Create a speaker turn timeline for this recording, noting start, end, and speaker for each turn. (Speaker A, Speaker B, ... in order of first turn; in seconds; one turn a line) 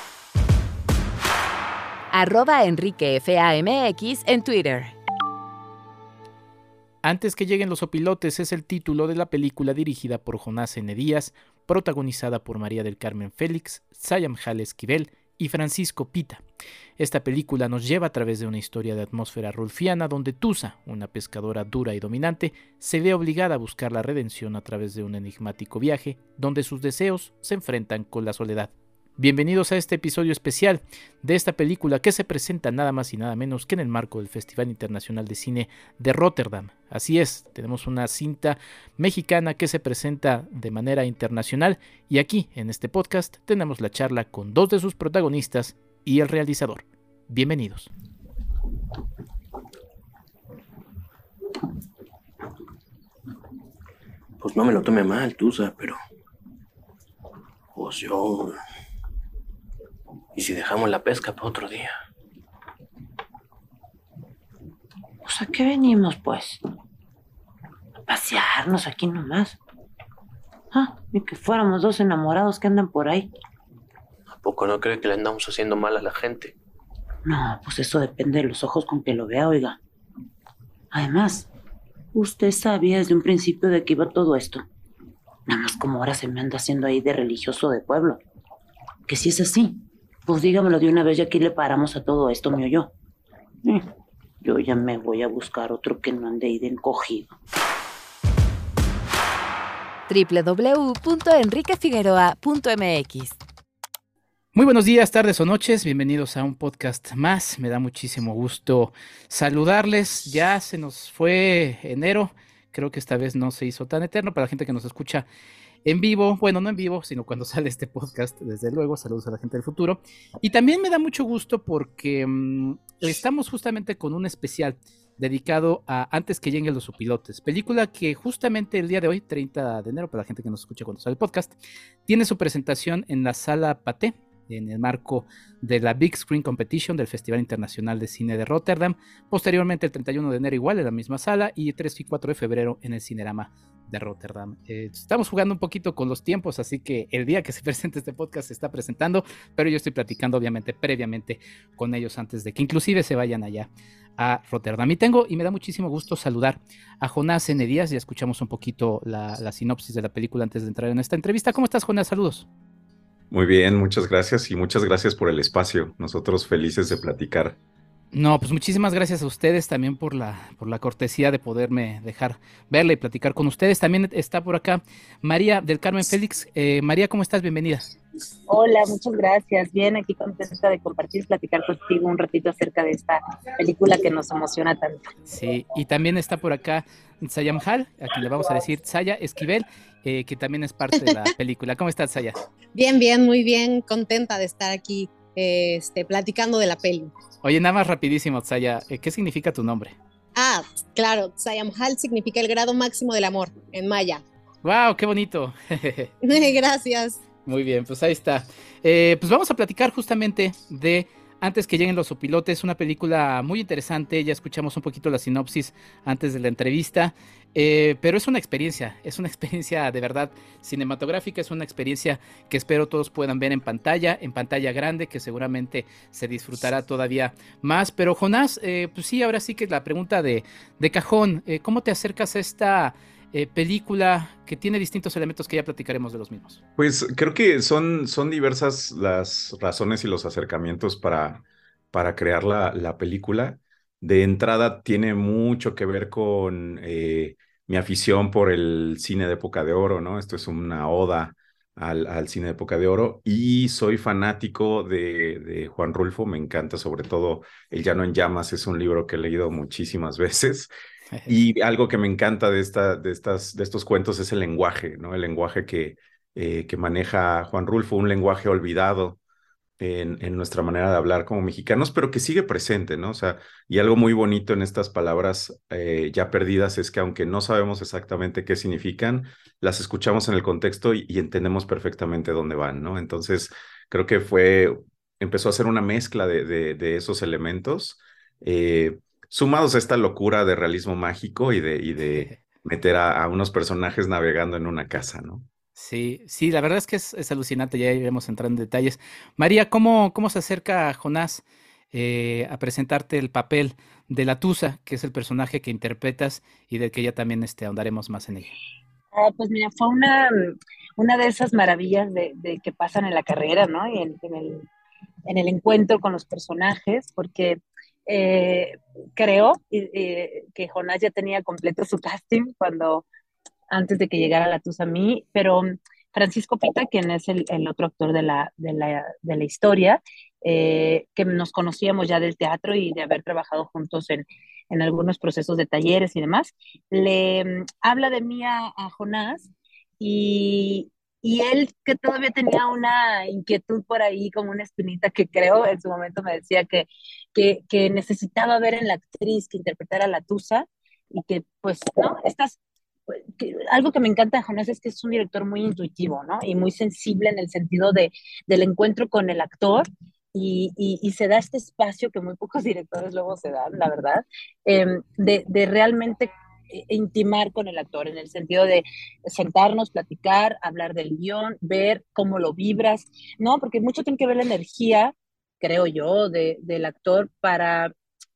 Speaker A: 2.1-5.0
Speaker B: 7.0-16.4
Speaker B: 17.0-47.9
Speaker C: 54.4-56.0
Speaker C: 57.7-58.5
Speaker C: 60.3-61.9
Speaker D: 65.2-66.6
Speaker D: 68.1-69.6
Speaker D: 70.7-73.3
Speaker C: 74.3-76.5
Speaker D: 77.2-79.8
Speaker D: 80.9-81.5
Speaker D: 82.1-84.6
Speaker D: 85.5-88.2
Speaker D: 89.1-92.9
Speaker D: 93.6-93.9
Speaker D: 94.4-97.3
Speaker A: 100.1-103.4
Speaker B: 104.5-115.3
Speaker B: 115.8-131.5
Speaker B: 132.1-162.5
Speaker E: 163.3-167.6
Speaker B: 168.1-177.8
Speaker F: 178.5-185.1
Speaker B: 185.3-192.4
Speaker G: 192.7-197.1
Speaker B: 197.4-199.9
Speaker G: 200.3-204.2
Speaker B: 204.6-206.1
Speaker G: 206.2-207.2
Speaker B: 207.4-236.6
Speaker E: 236.8-260.7
Speaker E: 261.3-269.2
Speaker E: 269.8-295.5
Speaker B: 295.8-308.5
Speaker F: 309.1-314.7
Speaker F: 315.3-323.0
Speaker F: 323.7-377.9